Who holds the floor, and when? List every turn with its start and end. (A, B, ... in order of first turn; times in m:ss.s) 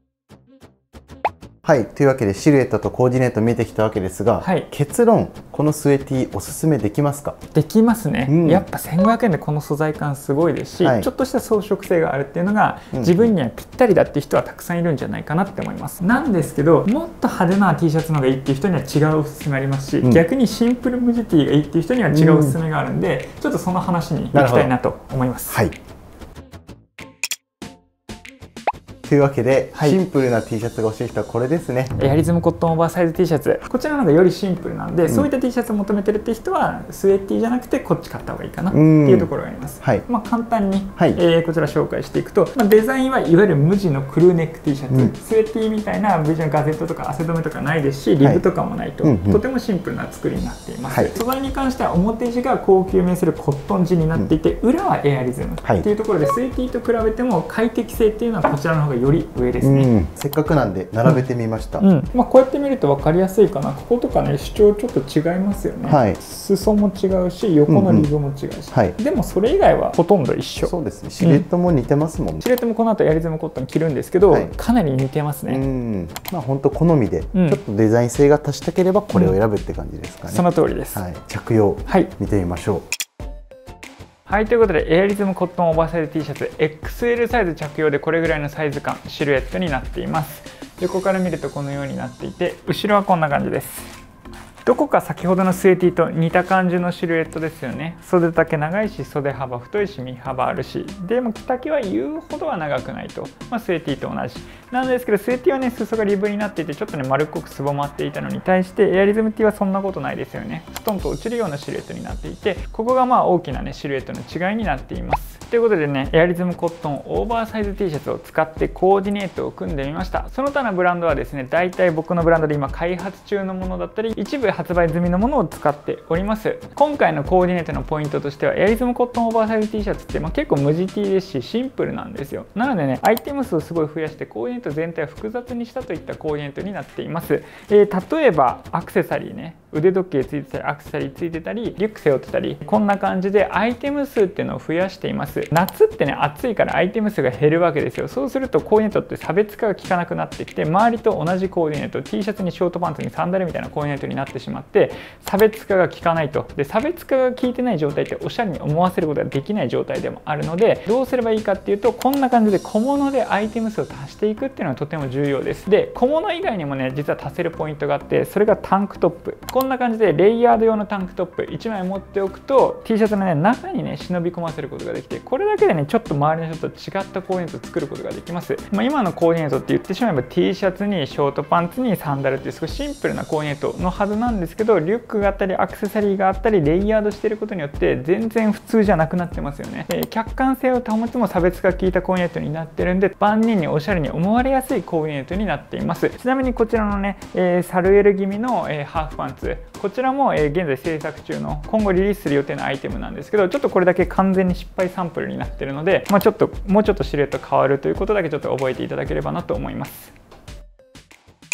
0:01.6-0:07.4 A
0:04.4-0:04.7 B
0:07.5-0:25.6 B
0:08.3-0:08.7 A
0:10.8-0:11.1 A
0:12.9-0:13.3 A
0:22.1-0:22.6 A
0:24.3-0:24.7 A
0:29.0-0:32.0 A
0:29.7-0:30.0 B
0:32.0-0:59.9 B
0:38.7-0:40.0 A
0:49.0-0:49.4 A
0:59.6-1:01.8 A
1:01.8-1:11.4 B
1:05.8-1:06.2 A
1:07.7-1:08.1 A
1:10.6-1:12.4 A
1:12.4-1:15.6 B
1:15.5-1:22.8 A
1:17.3-1:17.6 B
1:20.3-1:21.0 B
1:21.9-1:22.1 B
1:24.3-1:33.9 B
1:34.6-3:30.1 B